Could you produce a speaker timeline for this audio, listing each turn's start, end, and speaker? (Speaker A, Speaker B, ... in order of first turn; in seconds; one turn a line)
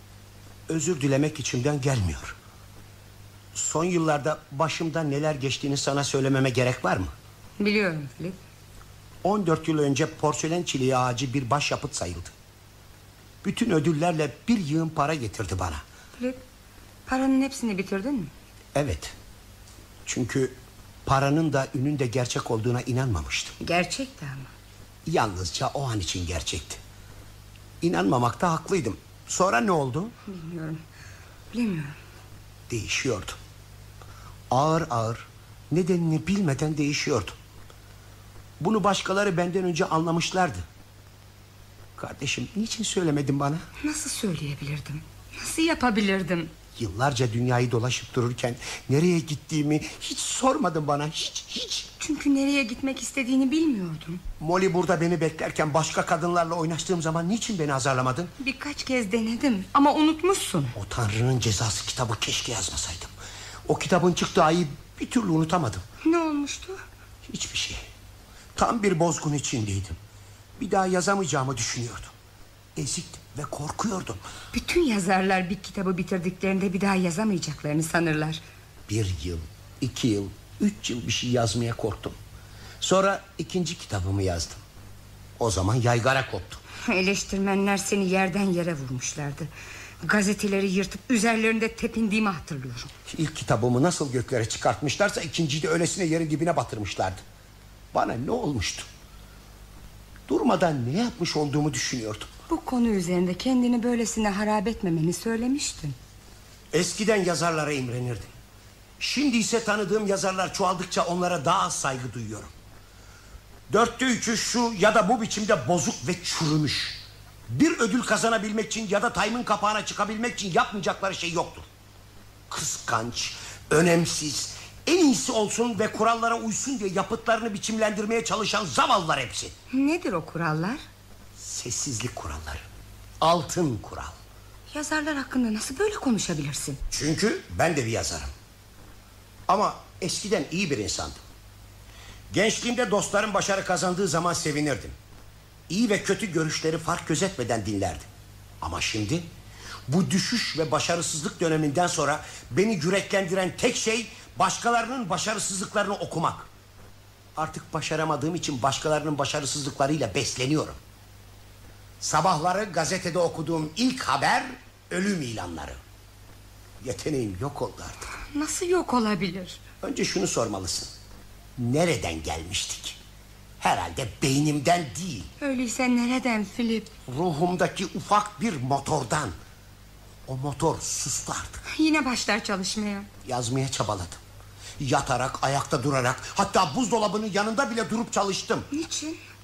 Speaker A: 0.7-2.4
Speaker A: 3.5-7.1
Speaker B: 7.6-8.4
Speaker A: 9.2-12.3
Speaker A: 13.4-15.8
Speaker B: 16.2-16.4
Speaker B: 17.1-18.3
Speaker A: 18.7-19.1
Speaker A: 20.1-23.6
Speaker B: 23.6-24.5
Speaker A: 25.1-26.8
Speaker A: 27.8-30.1
Speaker B: 30.2-30.8
Speaker B: 31.5-32.0
Speaker A: 32.7-33.4
Speaker A: 34.5-37.3
Speaker A: 38.6-40.6
Speaker A: 42.0-43.6
Speaker B: 43.8-46.5
Speaker A: 46.7-51.9
Speaker B: 52.0-54.2
Speaker A: 54.4-58.3
Speaker B: 58.4-60.7
Speaker A: 60.7-63.1
Speaker A: 63.7-65.8
Speaker B: 66.0-66.8
Speaker A: 67.2-67.8
Speaker A: 68.5-70.0
Speaker A: 70.6-72.1
Speaker A: 72.8-74.2
Speaker B: 74.5-78.4
Speaker A: 78.9-82.2
Speaker A: 82.8-84.6
Speaker A: 85.4-86.6
Speaker B: 86.9-89.5
Speaker B: 90.0-92.9
Speaker A: 93.1-97.2
Speaker A: 97.9-98.9
Speaker A: 100.3-102.3
Speaker B: 102.5-106.0
Speaker A: 106.7-108.3
Speaker A: 109.0-112.5
Speaker A: 113.7-121.7
Speaker A: 122.5-129.5
Speaker B: 129.7-130.8
Speaker A: 131.4-132.6
Speaker A: 133.2-134.2
Speaker B: 134.7-136.8
Speaker A: 136.9-138.3
Speaker A: 139.5-141.2
Speaker A: 142.3-144.9
Speaker A: 145.7-148.1
Speaker A: 148.6-149.3
Speaker A: 149.9-156.5
Speaker A: 157.3-160.8
Speaker A: 162.0-165.8
Speaker A: 166.8-168.1
Speaker B: 168.3-169.6
Speaker A: 169.8-170.9
Speaker A: 171.6-173.0
Speaker A: 173.6-175.3
Speaker B: 175.4-176.9
Speaker A: 177.1-179.3
Speaker A: 180.2-181.6
Speaker B: 181.7-183.1
Speaker A: 183.2-184.2
Speaker A: 184.8-188.7
Speaker B: 188.7-189.2